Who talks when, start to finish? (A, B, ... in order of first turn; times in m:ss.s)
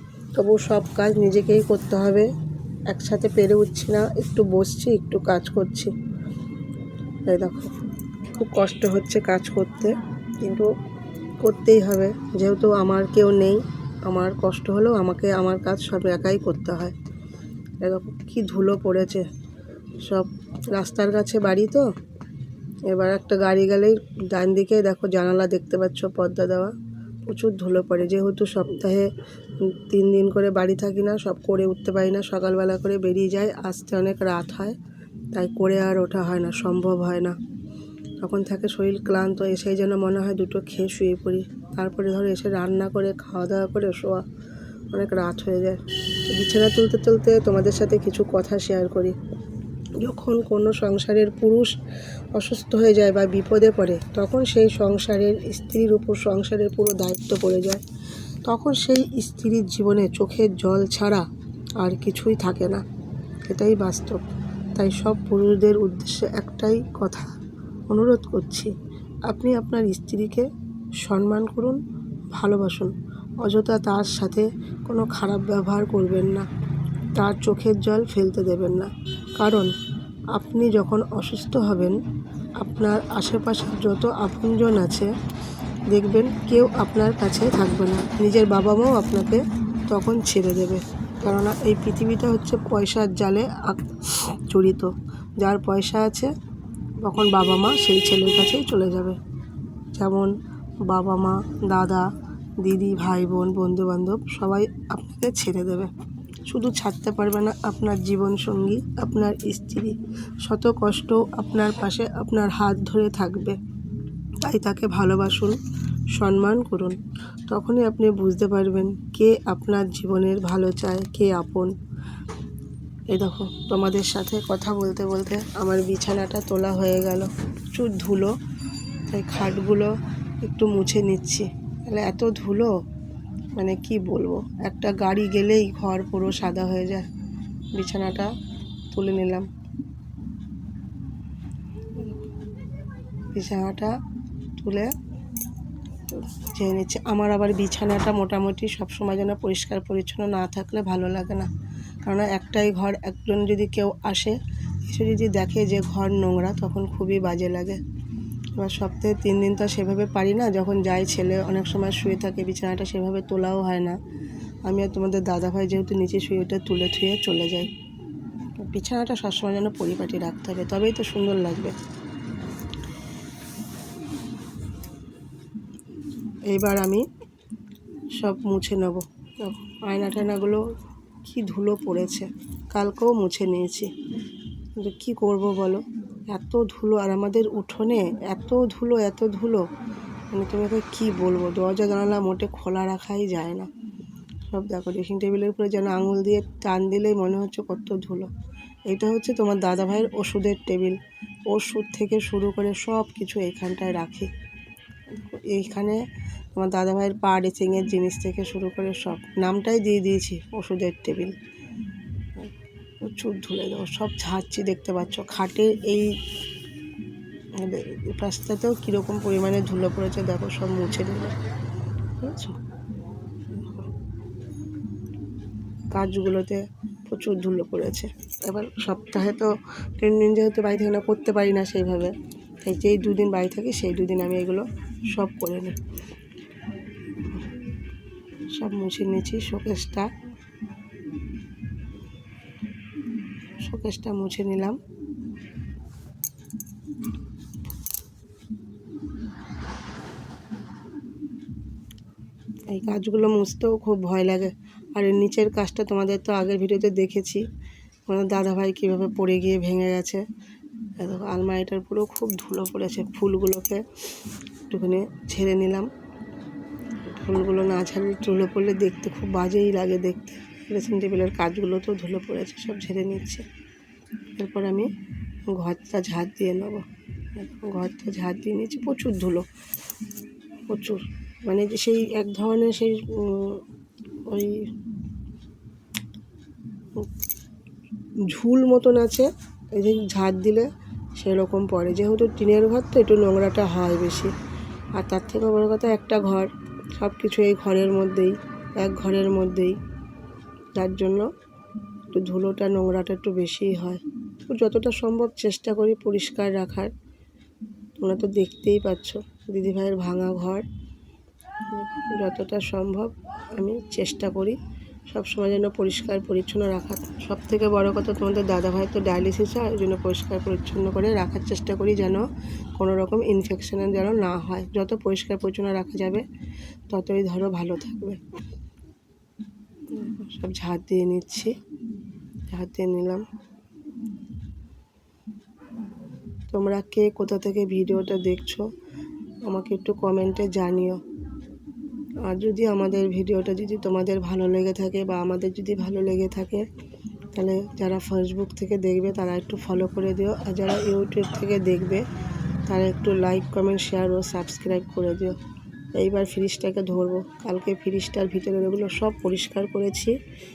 0:00.3-0:02.3 A
0:02.9-0:05.9 A
0:07.2-0:07.7 A
0:08.3-0:10.7 A
0:11.4-0:16.9 A
0:17.8-0:19.2 A
0:20.0-0:21.9 A
0:22.9-0:26.7 A
0:27.2-0:34.8 A
0:35.3-0:37.4 A
0:38.2-0:44.2 A
0:44.9-0:49.2 A
0:50.0-0:51.7 A
0:52.3-0:57.8 A
0:58.4-1:01.2 A
1:01.8-1:02.8 A
1:03.4-1:04.2 A
1:04.8-1:07.3 A
1:07.9-1:08.7 A
1:09.2-1:10.5 A
1:11.0-1:11.8 A
1:12.3-1:16.4 A
1:17.1-1:19.7 A
1:20.3-1:22.0 A
1:22.6-1:25.1 A
1:25.9-1:36.3 A
1:37.0-1:39.2 A
1:39.9-1:40.3 A
1:40.9-1:42.1 A
1:42.6-1:45.9 A
1:46.5-1:53.6 A
1:54.4-1:55.6 A
1:56.1-2:01.7 A
2:03.1-2:08.3 A
2:09.1-2:12.7 A
2:13.5-2:17.1 A
2:17.7-2:18.3 A
2:18.9-2:19.5 A
2:23.3-2:23.9 A
2:24.6-2:24.9 A
2:26.1-2:31.5 A
2:32.0-2:37.8 A
2:38.6-2:44.0 A
2:44.6-2:47.7 A
2:48.6-2:51.8 A
2:56.5-2:57.0 A
2:58.2-3:00.6 A
3:01.2-3:03.9 A
3:04.8-3:09.7 A
3:10.3-3:13.7 A
3:14.5-3:18.3 A
3:18.9-3:24.3 A
3:25.1-3:31.3 A
3:32.4-3:36.2 A
3:37.6-3:41.4 A
3:42.2-3:42.6 A
3:43.5-3:43.8 A
3:45.9-3:55.8 A
3:58.5-4:00.1 A
4:03.6-4:04.8 A
4:12.7-4:17.4 A
4:18.1-4:20.2 A
4:21.0-4:23.8 A
4:24.7-4:25.9 A
4:27.1-4:33.4 A
4:34.4-4:34.9 A
4:35.5-4:39.5 A
4:40.7-4:43.6 A
4:44.3-4:44.7 A
4:48.3-4:54.3 A
4:54.9-4:59.8 A
5:00.7-5:01.3 A
5:02.1-5:06.9 A
5:08.0-5:10.6 A
5:11.7-5:14.6 A
5:15.1-5:26.2 A
5:26.9-5:28.2 A
5:29.9-5:31.5 A
5:32.5-5:33.2 A
5:36.5-5:38.6 A
5:39.4-5:41.0 A
5:42.2-5:46.6 A
5:47.3-5:52.0 A
5:52.7-5:55.4 A
5:55.9-6:00.2 A